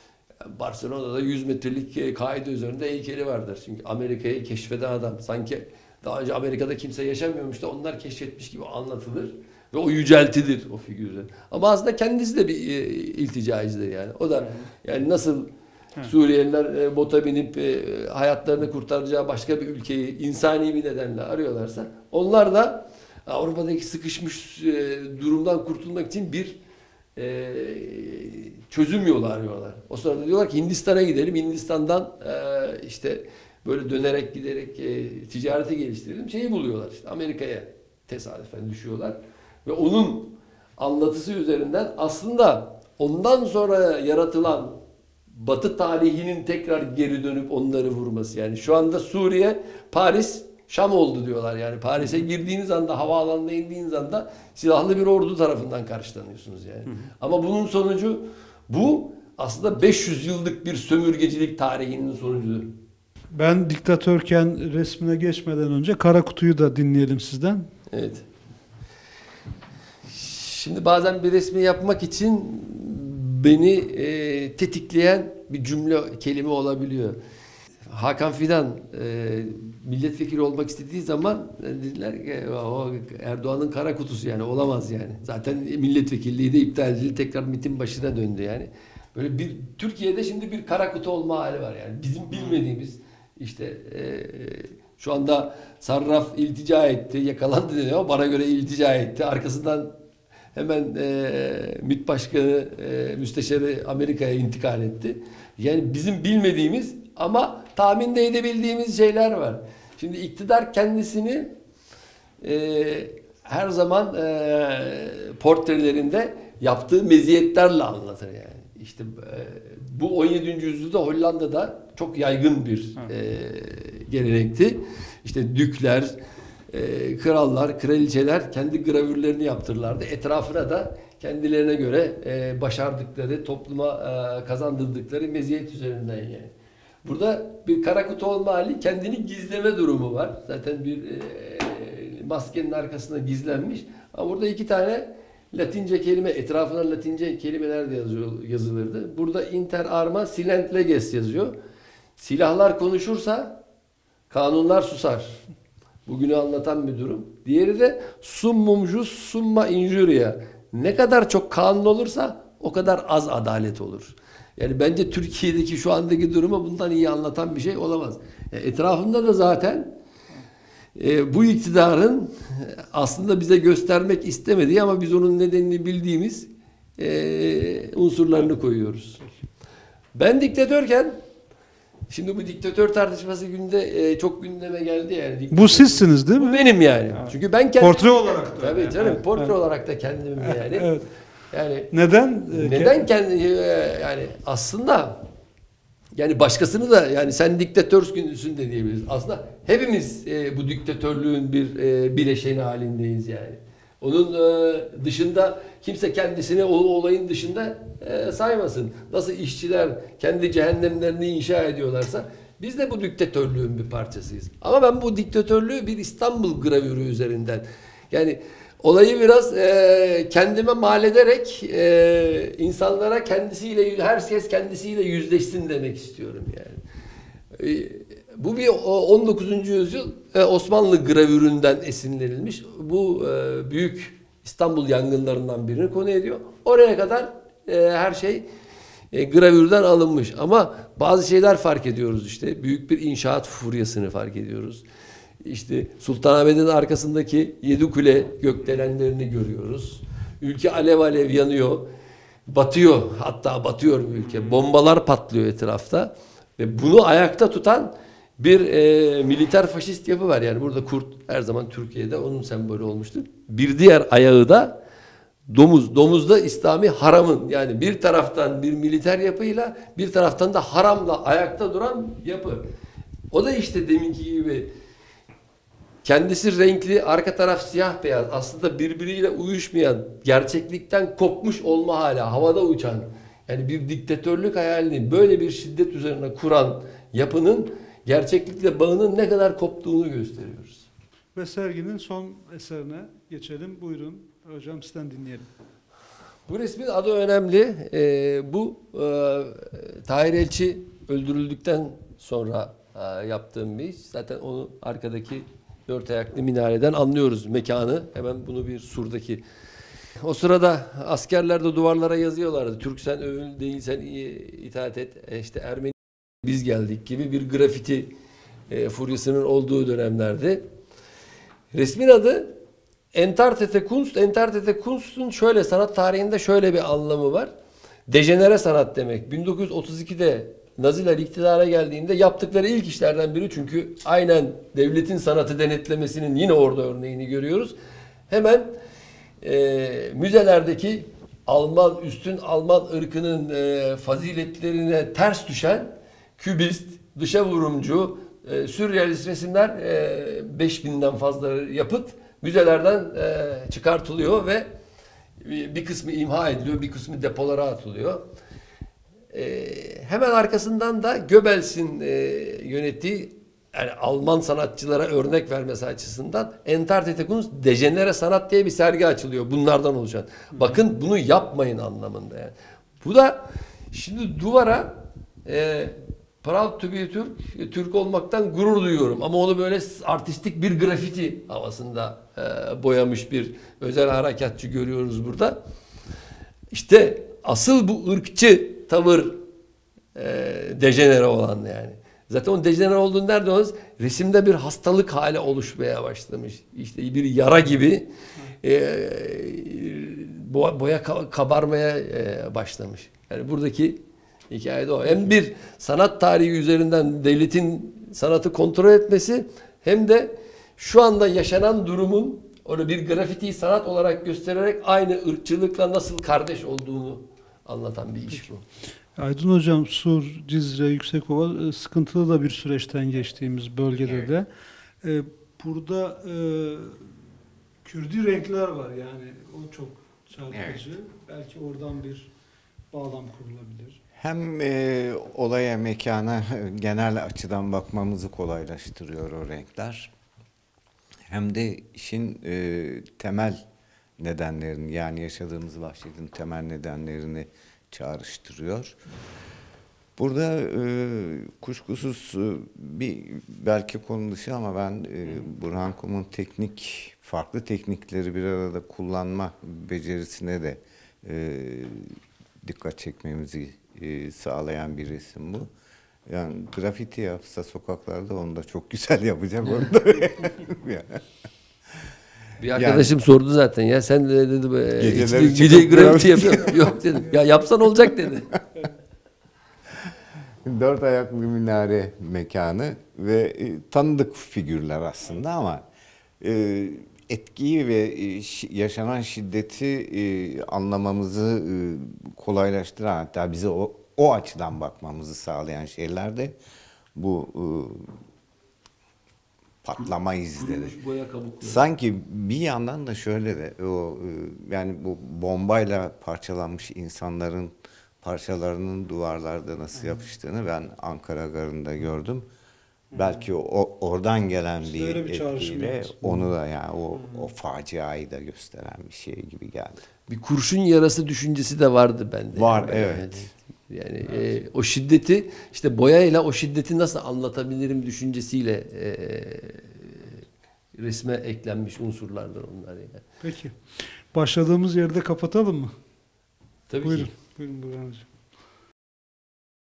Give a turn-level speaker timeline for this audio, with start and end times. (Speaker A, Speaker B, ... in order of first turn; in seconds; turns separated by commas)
Speaker A: 0.4-15.5, Speaker A: 16.0-26.6, Speaker A: 27.2-44.8, Speaker A: 45.3-62.8, Speaker B: 63.3-67.7, Speaker A: 67.9-68.3, Speaker A: 70.1-77.2, Speaker A: 77.9-99.9, Speaker B: 92.3-92.6, Speaker A: 100.5-111.6, Speaker A: 112.4-126.2, Speaker A: 126.7-136.5, Speaker A: 137.1-151.6, Speaker A: 152.2-153.6, Speaker A: 154.3-155.4, Speaker A: 156.1-170.0, Speaker A: 171.0-179.2, Speaker A: 180.2-181.2, Speaker A: 182.1-190.9, Speaker B: 185.5-189.6, Speaker B: 190.4-191.1, Speaker A: 191.5-191.9, Speaker B: 191.9-193.1, Speaker A: 192.5-195.2, Speaker A: 196.2-226.8, Speaker A: 227.5-238.5, Speaker A: 239.1-244.8, Speaker A: 245.4-251.9, Speaker A: 252.5-264.8, Speaker A: 265.5-272.6, Speaker A: 273.3-274.7, Speaker A: 276.0-290.9, Speaker B: 291.4-295.5, Speaker A: 296.5-309.4, Speaker A: 310.2-318.1, Speaker A: 318.7-320.6, Speaker A: 321.7-322.6, Speaker A: 323.1-327.5, Speaker A: 328.1-337.8, Speaker A: 338.3-338.8, Speaker A: 339.4-354.7, Speaker A: 355.4-358.2, Speaker A: 359.3-385.6, Speaker A: 386.7-389.4, Speaker A: 390.1-398.1, Speaker A: 398.6-418.6, Speaker B: 419.2-424.5, Speaker C: 424.0-424.3, Speaker B: 425.0-427.0, Speaker B: 427.8-432.3, Speaker C: 430.5-430.9, Speaker B: 432.9-434.0, Speaker C: 434.2-440.1, Speaker C: 441.3-443.6, Speaker C: 444.2-449.0, Speaker C: 450.2-465.7, Speaker C: 466.3-471.2, Speaker A: 469.6-469.9, Speaker A: 472.6-478.5, Speaker C: 472.7-473.1, Speaker C: 475.0-477.0, Speaker C: 480.6-485.9, Speaker C: 486.4-496.6, Speaker C: 497.1-498.1, Speaker C: 499.8-501.0, Speaker A: 500.6-501.8, Speaker C: 501.6-512.5, Speaker C: 513.1-520.0, Speaker B: 514.8-516.5, Speaker A: 520.3-530.4, Speaker C: 522.5-523.5, Speaker A: 531.0-533.2, Speaker B: 533.4-533.8, Speaker B: 534.3-536.0, Speaker A: 536.9-537.3, Speaker B: 537.0-538.3